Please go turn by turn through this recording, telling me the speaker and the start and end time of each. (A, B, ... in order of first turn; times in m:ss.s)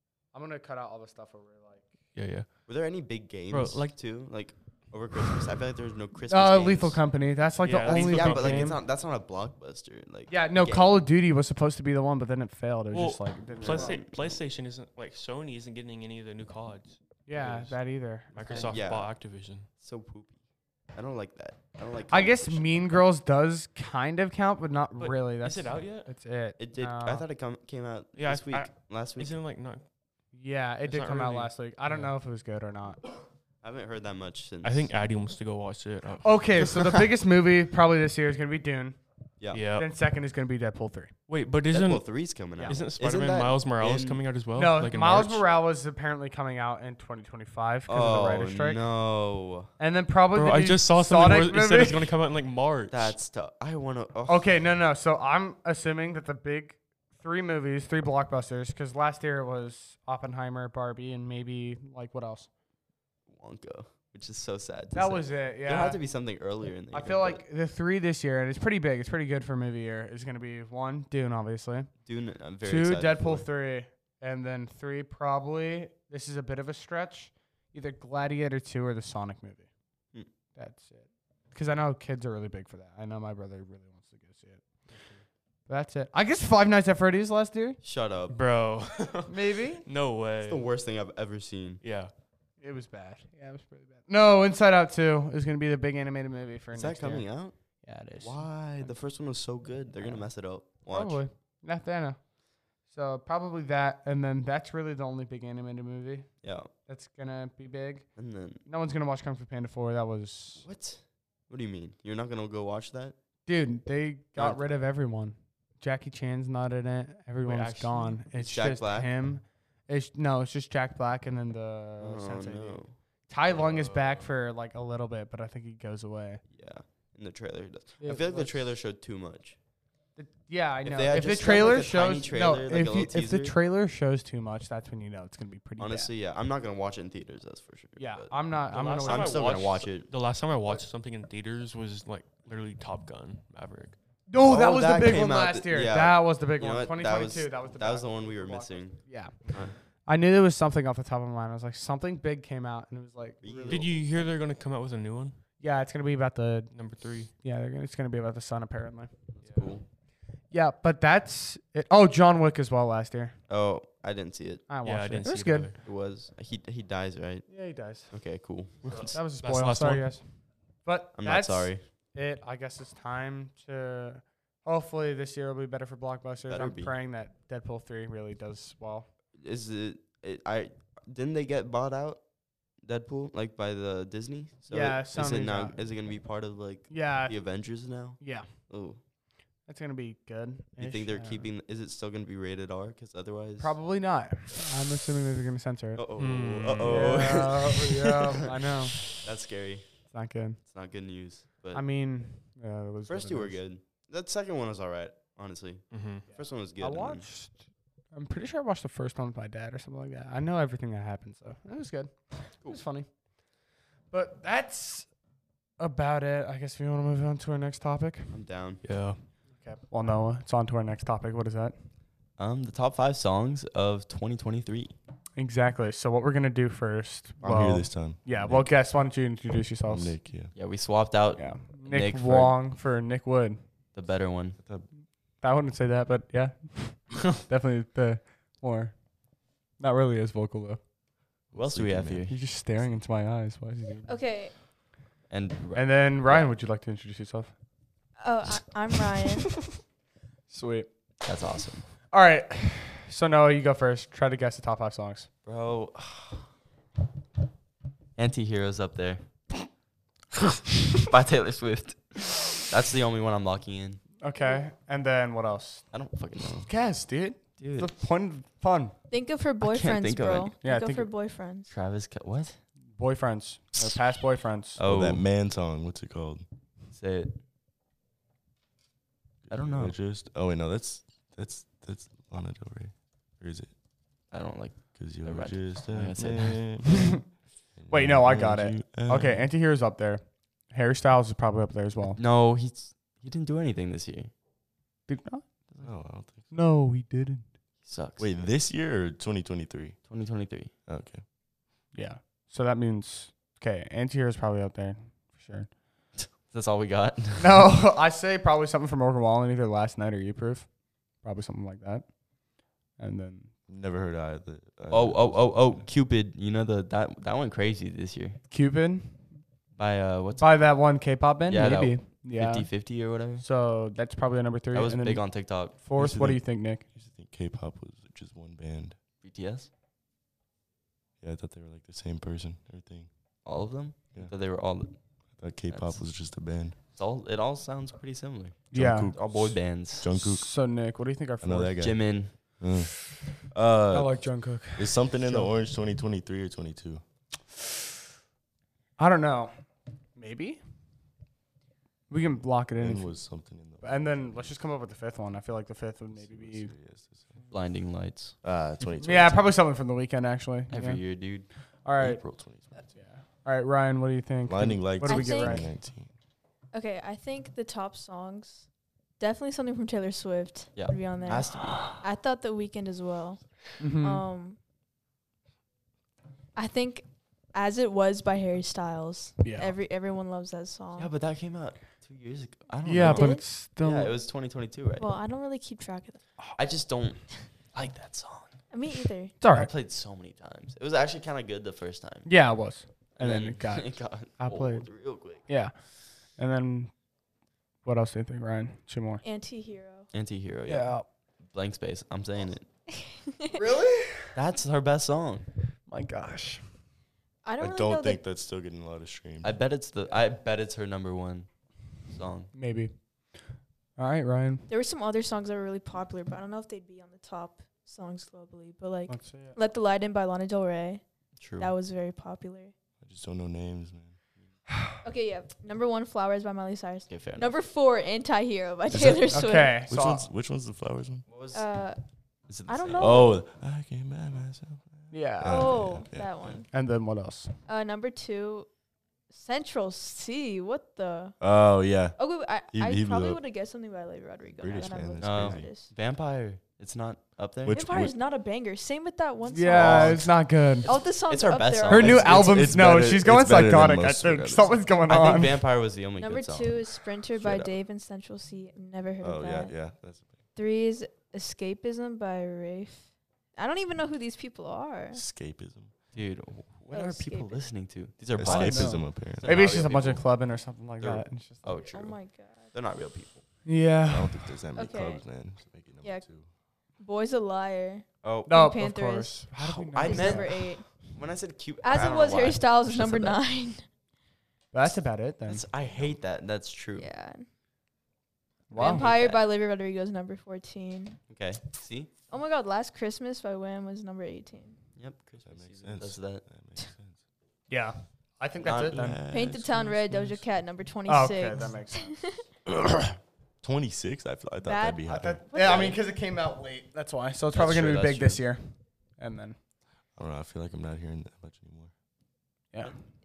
0:00.3-0:01.9 A
0:02.1-0:02.5 B
0:02.7-0:07.0 C
0:03.5-0:04.0 B
0:06.3-0:08.8 A
0:07.6-0:08.8 B
0:07.8-0:11.0 C
0:10.3-0:14.0 A
0:12.9-0:17.8 B
0:13.5-0:14.4 C
0:17.3-0:18.7 A
0:18.3-0:19.7 B
0:18.5-0:19.1 C
0:19.8-0:20.4 C
0:20.9-0:22.9 C
0:22.1-0:27.3 A
0:25.0-0:26.1 B
0:26.6-0:29.4 C
0:28.1-0:29.8 B
0:30.3-0:33.0 A
0:30.8-0:32.1 B
0:33.6-0:34.9 C
0:34.6-0:36.6 B
0:36.2-0:39.0 A
0:39.5-0:39.9 B
0:39.7-0:41.1 A
0:41.3-0:45.5 B
0:41.7-0:44.2 C
0:42.6-0:42.8 A
0:44.6-0:48.8 A
0:47.9-0:49.7 C
0:49.8-0:52.1 A
0:50.3-0:53.2 B
0:52.9-0:54.5 C
0:54.3-1:02.5 A
1:03.3-1:07.4 C
1:04.9-1:06.0 A
1:06.9-1:11.9 A
1:12.0-1:13.5 C
1:12.6-1:19.7 A
1:20.6-1:24.7 A
1:24.9-1:25.2 B
1:25.7-1:27.8 A
1:27.8-1:28.4 C
1:28.3-1:30.8 B
1:29.3-1:29.8 A
1:30.4-1:31.8 C
1:31.8-1:32.1 B
1:32.6-1:37.3 A
1:36.7-1:37.6 C
1:37.8-1:38.9 A
1:38.2-1:41.2 C
1:40.0-1:40.2 A
1:40.9-1:42.2 A
1:42.9-1:46.3 A
1:46.4-1:46.7 C
1:46.9-1:48.1 A
1:48.2-1:48.6 C
1:48.6-1:50.6 A
1:50.6-1:53.2 C
1:53.5-2:06.4 A
1:54.4-1:54.6 C
1:57.4-1:58.3 B
1:58.3-1:59.1 C
2:02.0-2:03.0 C
2:03.5-2:04.3 B
2:06.5-2:09.6 C
2:08.0-2:08.7 A
2:10.2-2:16.1 A
2:10.8-2:13.6 C
2:15.8-2:20.1 C
2:18.0-2:19.6 A
2:18.7-2:24.0 B
2:24.3-2:33.9 A
2:24.4-2:29.0 C
2:33.4-2:33.9 C
2:33.7-2:35.4 B
2:35.6-2:36.7 A
2:36.7-2:37.3 B
2:37.3-2:39.1 A
2:39.3-2:39.8 C
2:39.4-2:39.8 B
2:40.5-2:43.4 A
2:43.5-2:44.7 C
2:44.7-2:45.7 A
2:44.8-2:45.8 B
2:45.4-2:49.1 C
2:47.5-2:50.3 A
2:48.9-2:50.1 B
2:50.8-2:59.1 A
2:51.2-2:51.8 C
2:56.5-2:56.9 C
2:59.4-3:09.0 C
3:04.7-3:05.8 A
3:06.9-3:08.5 A
3:09.7-3:11.5 A
3:10.8-3:13.8 C
3:13.6-3:16.0 A
3:16.0-3:19.9 C
3:16.1-3:17.4 B
3:16.8-3:19.2 A
3:20.1-3:20.6 A
3:20.6-3:21.8 C
3:21.7-3:23.6 A
3:23.1-3:27.3 C
3:25.9-3:26.3 B
3:26.3-3:33.2 A
3:34.1-3:35.1 A
3:35.8-3:38.3 A
3:38.3-3:38.8 C
3:38.8-3:39.2 B
3:39.6-3:41.8 A
3:42.4-3:45.0 C
3:45.4-3:50.2 A
3:47.4-3:48.6 D
3:49.9-3:50.5 D
3:50.5-3:52.6 C
3:51.4-3:53.6 A
3:53.9-3:54.6 C
3:54.6-3:54.9 D
3:55.4-3:59.0 A
3:59.8-4:00.8 A
4:01.5-4:02.3 C
4:01.6-4:02.2 D
4:02.3-4:04.2 A
4:04.1-4:04.6 E
4:05.3-4:06.5 C
4:05.7-4:07.5 A
4:08.2-4:09.6 E
4:10.5-4:10.9 A
4:11.2-4:11.9 C
4:12.1-4:15.3 A
4:15.5-4:16.5 C
4:18.2-4:19.3 C
4:21.1-4:24.0 C
4:24.2-4:25.9 A
4:25.9-4:26.7 C
4:26.6-4:29.0 A
4:27.6-4:27.9 C
4:29.1-4:31.7 E
4:29.6-4:30.5 C
4:30.6-4:31.1 A
4:31.7-4:32.6 C
4:32.9-4:34.8 A
4:34.8-4:35.3 C
4:34.8-4:36.4 D
4:36.9-4:37.4 C
4:39.5-4:43.7 D
4:39.5-4:40.0 C
4:44.3-4:46.9 C
4:45.0-4:47.2 D
4:47.8-4:49.5 D
4:47.9-4:52.2 A
4:52.1-4:54.3 C
4:55.1-4:55.4 A
4:55.8-4:56.4 D
4:56.5-4:57.5 A
4:57.8-4:58.4 C
4:58.2-5:00.0 D
5:00.1-5:00.7 C
5:00.9-5:01.2 D
5:01.9-5:05.7 A
5:06.2-5:07.6 C
5:07.4-5:12.2 A
5:12.9-5:13.5 A
5:13.7-5:15.9 D
5:14.9-5:18.4 C
5:18.5-5:19.4 A
5:19.8-5:20.8 C
5:20.4-5:22.9 A
5:21.5-5:23.4 C
5:23.4-5:26.8 A
5:24.7-5:25.8 C
5:26.0-5:29.0 D
5:29.2-5:29.7 C
5:31.2-5:33.1 D
5:33.4-5:35.0 C
5:35.4-5:36.8 D
5:35.7-5:36.0 C
5:37.0-5:40.1 C
5:38.7-5:40.5 D
5:38.7-5:39.1 A
5:40.1-5:41.8 A
5:41.4-5:47.0 D
5:41.8-5:42.4 C
5:43.9-5:45.5 A
5:49.0-5:49.6 A
5:50.2-5:50.6 A
5:52.1-5:53.2 A
5:52.8-5:54.6 D
5:53.8-5:56.7 A
5:56.1-5:57.4 D
5:57.5-5:58.4 C
5:58.4-5:59.6 D
5:59.0-6:01.2 A
6:00.7-6:01.5 C
6:01.8-6:02.2 A
6:02.1-6:02.8 D
6:02.8-6:05.7 A
6:04.5-6:06.1 D
6:05.0-6:05.7 E
6:06.7-6:14.6 E
6:10.8-6:11.9 C
6:13.8-6:14.2 A
6:16.6-6:21.1 E
6:19.4-6:19.8 A
6:21.0-6:25.1 C
6:22.8-6:24.2 A
6:23.0-6:23.4 E
6:25.0-6:26.2 E
6:26.6-6:28.6 C
6:28.7-6:29.4 E
6:29.4-6:29.7 A
6:29.5-6:32.3 C
6:32.3-6:35.8 A
6:33.2-6:35.5 C
6:36.3-6:37.0 A
6:37.8-6:39.2 A
6:39.2-6:40.1 E
6:40.1-6:40.9 C
6:40.7-6:41.1 A
6:41.5-6:42.7 C
6:43.5-6:44.3 A
6:44.4-6:45.5 C
6:45.9-6:46.7 A
6:47.4-6:48.2 E
6:47.6-6:49.6 D
6:49.4-6:52.5 C
6:52.5-6:53.0 A
6:54.0-6:54.7 A
6:54.7-7:02.7 E
6:59.1-6:59.6 A
7:01.4-7:01.7 C
7:03.0-7:04.2 D
7:05.0-7:09.9 E
7:07.1-7:07.6 C
7:08.9-7:11.2 D
7:09.3-7:10.3 A
7:11.3-7:11.7 C
7:11.5-7:12.0 E
7:12.5-7:13.2 C
7:12.6-7:13.4 E
7:13.0-7:16.6 D
7:15.1-7:15.8 A
7:15.5-7:16.7 E
7:16.7-7:17.6 A
7:17.7-7:18.7 E
7:19.3-7:21.5 E
7:21.4-7:23.4 D
7:22.2-7:25.9 E
7:24.5-7:25.7 D
7:25.2-7:27.8 C
7:27.6-7:28.1 D
7:27.7-7:30.2 E
7:29.5-7:30.9 A
7:29.7-7:30.3 C
7:30.8-7:32.1 E
7:30.8-7:33.0 C
7:31.9-7:35.6 A
7:31.9-7:34.8 D
7:35.1-7:37.8 C
7:36.2-7:39.8 E
7:39.2-7:40.4 D
7:40.6-7:45.2 E
7:45.1-7:45.9 D
7:46.1-7:50.3 C
7:46.9-7:47.7 E
7:48.3-7:50.0 D
7:48.4-7:51.9 A
7:51.0-7:53.4 C
7:51.9-7:52.8 E
7:53.6-7:54.6 A
7:54.1-7:56.5 D
7:54.8-7:56.4 E
7:57.0-8:00.9 E
7:58.2-7:58.6 C
7:58.5-8:00.6 A
7:59.9-8:03.4 C
8:01.8-8:03.8 E
8:04.7-8:05.6 A
8:05.5-8:07.1 C
8:07.0-8:07.5 E
8:08.7-8:09.1 A
8:08.7-8:11.2 E
8:08.7-8:09.4 C
8:11.3-8:12.1 C
8:12.3-8:14.8 E
8:15.0-8:16.5 C
8:15.4-8:17.2 D
8:17.7-8:19.2 A
8:18.6-8:19.1 C
8:18.7-8:20.3 D
8:19.3-8:22.0 E
8:21.1-8:22.3 A
8:23.6-8:25.5 D
8:24.6-8:25.9 E
8:25.1-8:29.6 A
8:25.6-8:26.0 C
8:27.5-8:28.4 C
8:30.2-8:31.9 D